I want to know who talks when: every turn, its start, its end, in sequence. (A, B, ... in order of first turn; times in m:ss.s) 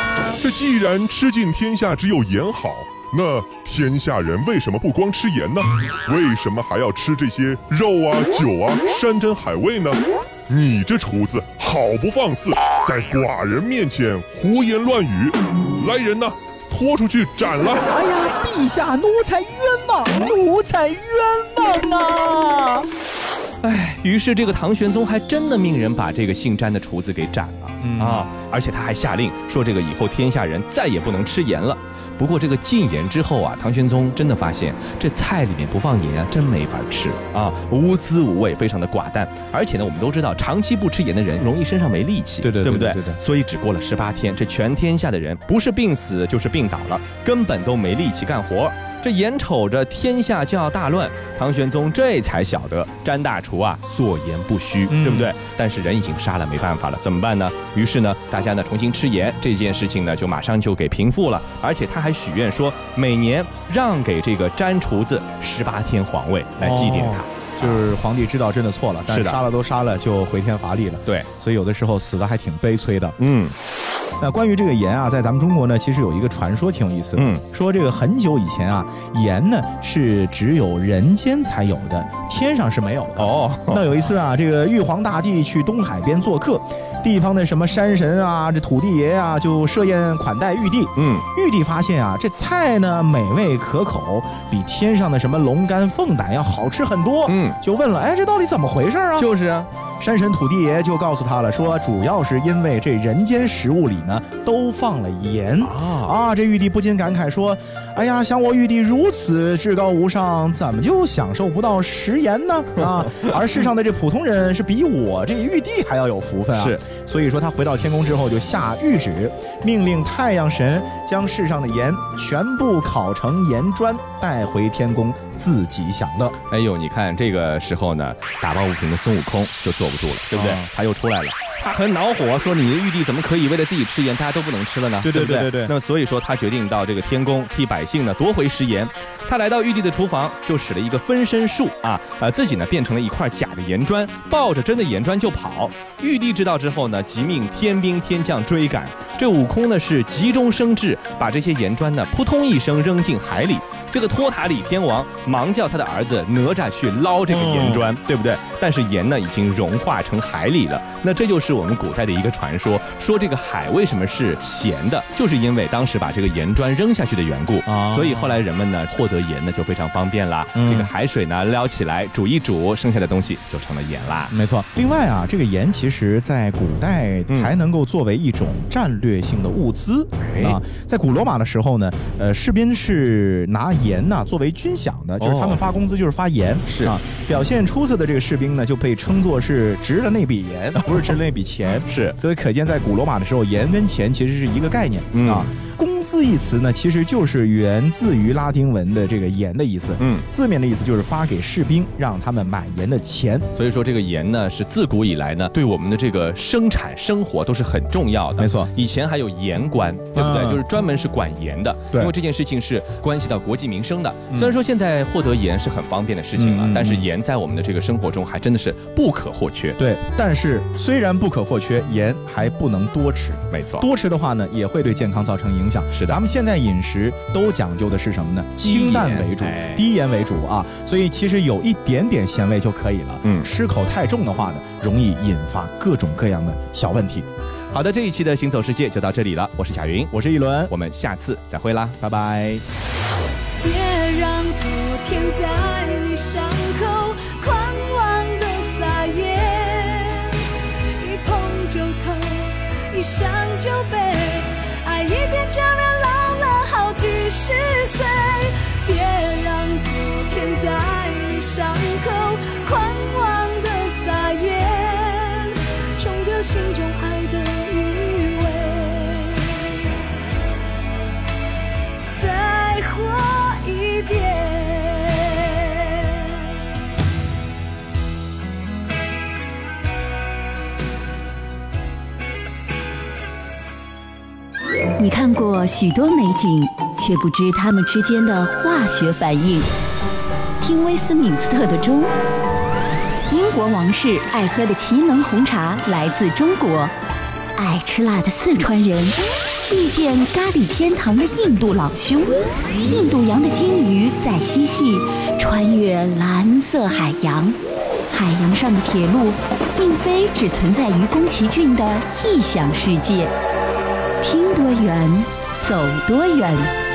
0:00.4-0:17.8 A
0:17.6-0:22.9 B
0:23.6-1:07.8 C
0:27.8-0:28.3 B
0:42.4-0:43.2 B
0:54.9-0:55.3 B
1:06.6-1:13.2 B
1:09.1-1:09.4 C
1:13.2-1:13.6 C
1:14.2-1:39.3 B
1:17.2-1:17.4 C
1:23.2-1:23.9 C
1:31.0-1:31.3 C
1:37.2-1:37.6 C
1:39.2-1:39.7 C
1:40.0-2:06.4 B
1:45.6-1:46.1 C
1:56.5-1:56.8 C
2:06.5-2:54.3 C
2:10.3-2:10.7 B
2:15.0-2:15.7 B
2:37.3-2:37.9 B
2:47.6-2:48.4 B
2:50.6-2:50.9 B
2:54.3-3:23.5 B
2:57.3-2:57.5 C
3:00.2-3:00.6 C
3:05.2-3:05.6 C
3:06.6-3:06.9 C
3:11.9-3:12.2 C
3:15.1-3:15.5 C
3:20.0-3:20.2 C
3:23.5-3:39.8 C
3:28.4-3:28.7 B
3:30.1-3:30.6 B
3:36.4-3:37.0 B
3:39.8-3:57.3 B
3:43.5-3:43.9 C
3:45.9-3:46.2 C
3:48.6-3:49.9 C
3:53.2-3:53.5 C
3:57.7-4:00.1 C
4:00.1-4:00.7 B
4:00.7-4:02.0 C
4:02.0-4:02.6 B
4:03.6-4:29.8 D
4:32.1-4:36.4 D
4:45.0-4:49.7 E
4:50.6-4:52.1 E
4:53.3-4:56.9 E
4:57.6-4:59.2 E
4:59.7-5:07.6 E
5:08.1-5:13.3 E
5:14.2-5:16.7 E